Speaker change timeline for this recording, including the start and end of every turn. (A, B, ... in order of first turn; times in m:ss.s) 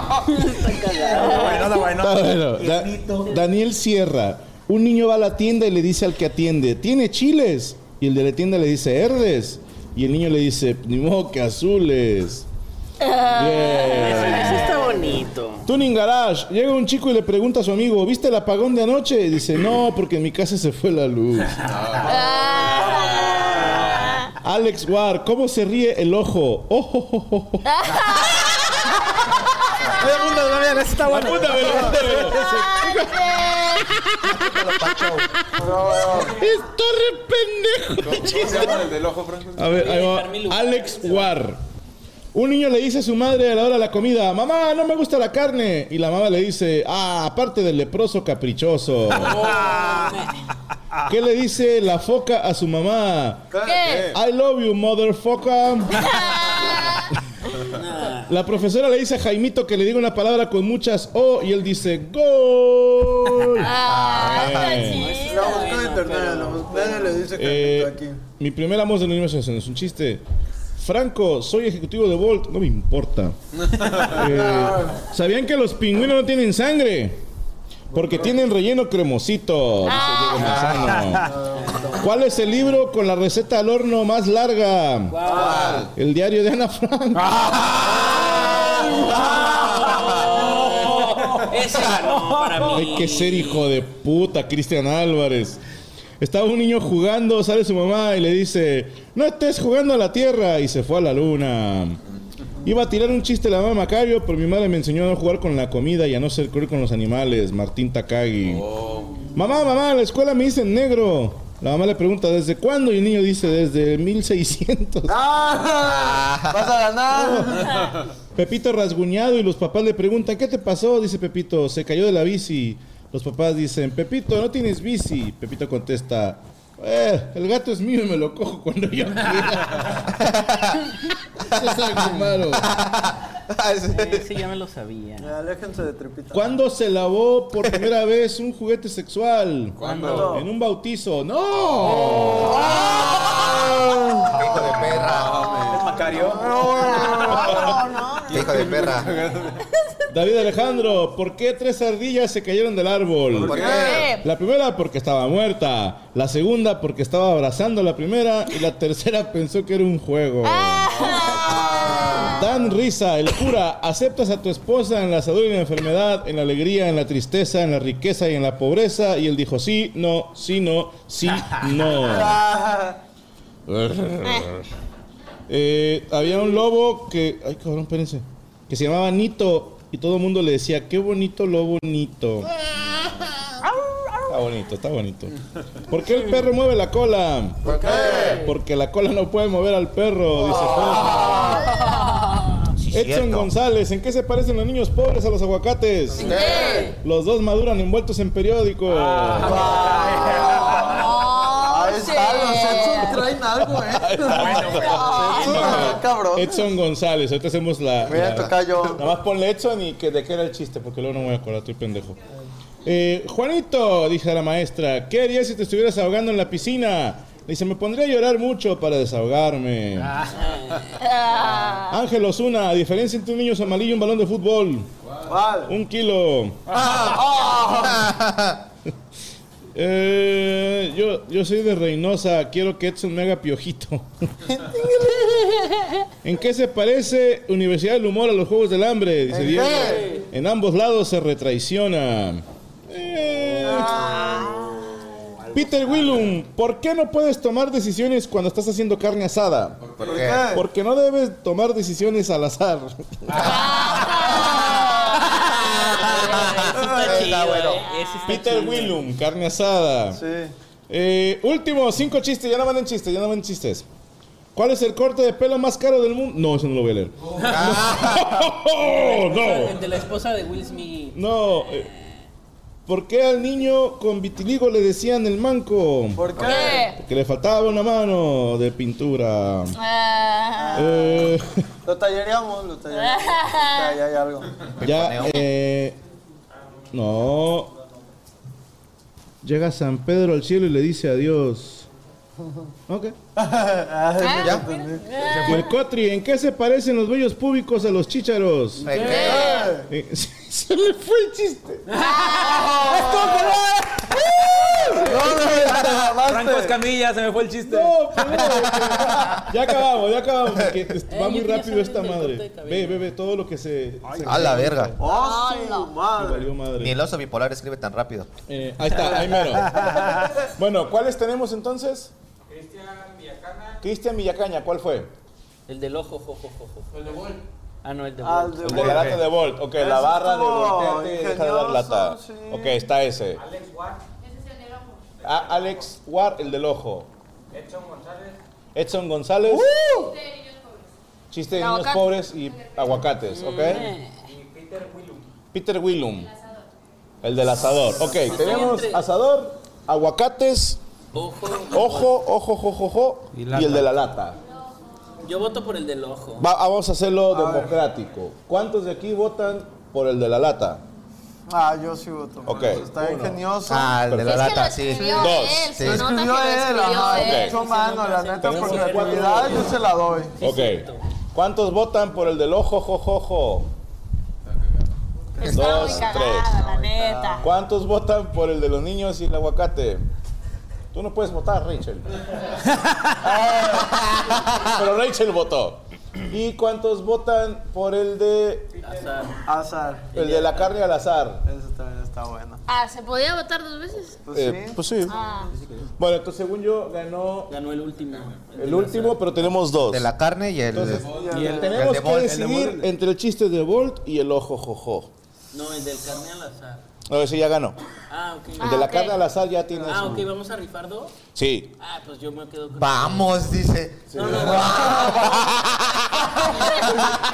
0:00.3-0:01.7 A
0:00.9-0:03.4 B
0:01.4-0:12.5 C
0:13.0-0:14.9 D
0:13.3-0:14.9 C
0:13.8-0:15.7 A
0:15.6-0:21.6 C
0:21.6-0:22.1 E
0:22.0-0:24.0 F
0:22.1-0:24.3 D
0:24.4-0:28.9 C
0:27.6-0:28.5 D
0:30.0-0:32.6 B
0:31.0-0:34.5 C
0:31.6-0:32.1 F
0:32.5-0:33.3 D
0:34.2-0:35.3 G
0:35.5-0:36.4 F
0:36.1-0:38.9 C
0:38.0-0:39.9 E
0:39.6-0:41.6 C
0:39.7-0:41.3 A
0:42.3-0:49.6 C
0:49.1-0:50.4 A
0:51.1-0:56.2 C
0:53.5-0:54.0 F
0:53.6-0:54.1 D
0:56.0-0:57.1 D
0:57.6-0:58.4 A
0:58.2-1:05.2 C
1:03.6-1:05.8 D
1:03.7-1:04.9 G
1:04.6-1:07.2 A
1:05.2-1:08.2 F
1:07.3-1:10.2 C
1:10.8-1:13.4 C
1:13.9-1:17.2 C
1:14.3-1:15.0 F
1:17.9-1:21.3 C
1:17.9-1:18.2 F
1:19.9-1:20.4 D
1:20.4-1:21.3 B
1:21.3-1:22.0 F
1:21.5-1:22.1 A
1:22.0-1:27.5 C
1:25.1-1:25.8 A
1:25.2-1:25.9 F
1:25.3-1:25.8 G
1:27.1-1:28.2 B
1:28.2-1:33.7 A
1:29.1-1:29.4 B
1:30.4-1:32.8 B
1:32.7-1:35.6 C
1:36.2-1:42.0 C
1:42.6-1:48.7 C
1:48.4-1:49.2 E
1:49.3-1:55.2 C
1:55.1-1:57.8 F
1:55.8-1:56.8 G
1:57.1-1:57.8 C
1:58.3-2:10.2 C
2:11.4-2:12.7 C
2:12.6-2:14.3 G
2:13.9-2:15.3 A
2:15.2-2:16.5 F
2:16.3-2:24.1 C
2:19.8-2:20.4 E
2:19.8-2:20.4 A
2:20.0-2:20.4 F
2:23.3-2:23.6 G
2:24.2-2:25.6 G
2:24.5-2:26.1 E
2:25.7-2:26.7 B
2:26.1-2:27.8 F
2:26.8-2:28.5 D
2:27.3-2:27.7 C
2:28.3-2:29.2 G
2:28.3-2:29.5 E
2:30.1-2:41.2 C
2:33.4-2:33.8 E
2:33.4-2:34.1 F
2:33.5-2:34.0 G
2:33.8-2:34.2 D
2:40.4-2:42.4 D
2:41.8-2:42.4 F
2:42.2-2:52.4 C
2:52.0-2:52.9 F
2:53.7-2:54.7 C
2:54.2-2:54.5 D
2:55.5-3:02.5 C
3:03.8-3:04.4 D
3:04.3-3:05.4 C
3:05.9-3:07.8 C
3:07.6-3:08.4 G
3:07.6-3:08.4 F
3:08.4-3:11.7 C
3:11.6-3:12.4 D
3:12.8-3:13.5 G
3:12.9-3:19.8 C
3:16.2-3:16.9 F
3:16.2-3:17.0 D
3:16.2-3:16.7 G
3:18.9-3:20.9 B
3:19.3-3:26.6 F
3:20.9-3:23.3 D
3:23.7-3:32.2 C
3:24.6-3:25.3 B
3:24.6-3:26.0 D
3:28.1-3:29.1 F
3:32.8-3:40.2 C
3:40.2-3:41.0 A
3:41.0-3:42.0 D
3:41.9-3:44.9 C
3:45.0-3:45.3 E
3:45.3-3:45.7 F
3:45.6-3:46.6 C
3:46.7-3:48.6 G
3:46.9-3:48.0 F
3:49.7-3:54.1 C
3:54.5-3:55.5 F
3:55.2-3:55.7 D
3:56.2-4:04.2 C
3:59.3-4:00.2 F
3:59.7-4:00.2 A
4:03.6-4:04.7 F
4:03.7-4:04.8 D
4:05.5-4:09.8 C
4:09.8-4:10.4 E
4:10.0-4:10.4 G
4:10.0-4:10.6 F
4:10.5-4:13.6 C
4:13.4-4:14.7 G
4:13.4-4:14.5 D
4:15.6-4:17.8 G
4:16.0-4:19.0 A
4:16.7-4:17.4 F
4:18.2-4:20.2 C
4:20.1-4:20.5 F
4:20.9-4:23.8 C
4:24.5-4:29.8 C
4:27.5-4:28.5 G
4:28.8-4:32.1 A
4:31.1-4:31.9 C
4:32.9-4:39.8 C
4:36.1-4:36.9 F
4:36.4-4:37.0 D
4:39.7-4:40.9 D
4:40.5-4:44.7 F
4:40.7-4:41.5 C
4:42.9-4:44.0 D
4:44.8-4:46.0 C
4:44.8-4:45.4 G
4:46.9-4:47.7 C
4:49.4-4:51.9 C
4:52.9-4:53.2 C
4:53.4-4:55.1 F
4:54.2-4:55.7 D
4:54.4-4:54.6 G
4:55.2-4:55.7 B
4:55.4-5:01.8 C
4:58.8-4:59.4 A
4:58.8-4:59.6 G
4:59.0-4:59.9 F
4:59.3-4:59.7 D
5:01.9-5:04.0 B
5:02.0-5:02.7 D
5:02.7-5:03.0 F
5:04.5-5:05.1 C
5:05.0-5:06.8 F
5:06.2-5:09.0 B
5:07.6-5:14.9 C
5:11.1-5:13.0 A
5:14.0-5:14.9 B
5:14.2-5:15.0 G
5:15.0-5:16.5 F
5:15.0-5:16.0 D
5:16.2-5:17.0 C
5:16.8-5:18.3 G
5:18.5-5:22.1 C
5:19.3-5:20.1 B
5:22.5-5:23.8 H
5:23.8-5:25.1 C
5:25.7-5:27.2 A
5:26.9-5:27.4 H
5:27.8-5:29.0 A
5:28.2-5:29.2 F
5:28.6-5:33.4 C
5:29.7-5:32.8 F
5:33.4-5:34.0 H
5:35.2-5:37.1 C
5:35.2-5:35.7 H
5:37.5-5:38.4 H
5:38.7-5:39.8 C
5:39.7-5:40.1 F
5:39.9-5:40.4 D
5:41.3-5:43.9 C
5:41.5-5:42.2 D
5:43.2-5:44.1 A
5:44.2-5:45.3 H
5:45.5-5:46.3 C
5:47.2-5:50.8 C
5:48.1-5:49.0 A
5:51.1-5:52.1 A
5:51.6-5:54.4 C
5:53.3-5:53.9 B
5:55.2-5:56.5 A
5:56.4-6:00.8 C
5:57.3-5:57.7 F
6:01.5-6:04.0 F
6:02.4-6:03.4 C
6:02.5-6:02.7 E
6:03.6-6:06.1 G
6:04.0-6:05.8 C
6:04.2-6:07.6 D
6:05.8-6:10.4 F
6:07.1-6:07.6 C
6:07.3-6:09.7 A
6:08.4-6:09.7 C
6:10.4-6:11.0 A
6:10.4-6:13.7 C
6:14.4-6:14.9 E
6:15.4-6:17.5 F
6:15.4-6:17.4 D
6:15.4-6:16.5 C
6:17.4-6:20.1 C
6:20.9-6:22.2 C
6:23.2-6:24.0 C
6:23.2-6:24.7 G
6:24.5-6:28.7 C
6:28.8-6:29.4 A
6:29.4-6:30.2 F
6:30.1-6:31.4 C
6:30.2-6:30.7 A
6:31.4-6:32.6 F
6:32.7-6:34.2 D
6:34.2-6:34.8 F
6:34.3-6:35.2 C
6:35.0-6:35.5 D
6:35.5-6:35.8 B
6:36.0-6:37.5 C
6:37.5-6:39.2 A
6:38.1-6:38.4 E
6:38.5-6:40.1 C
6:39.8-6:41.2 G
6:40.7-6:45.1 C
6:40.8-6:41.4 E
6:41.0-6:41.8 F
6:41.3-6:42.9 B
6:41.7-6:42.5 G
6:45.5-6:46.8 A
6:47.1-6:47.8 C
6:48.1-6:49.0 A
6:48.6-6:50.3 C
6:48.6-6:49.2 D
6:49.7-6:51.1 A
6:51.3-6:51.7 C
6:51.8-6:53.6 A
6:52.8-6:55.4 G
6:54.1-6:56.4 C
6:54.1-6:55.4 A
6:54.2-6:55.2 F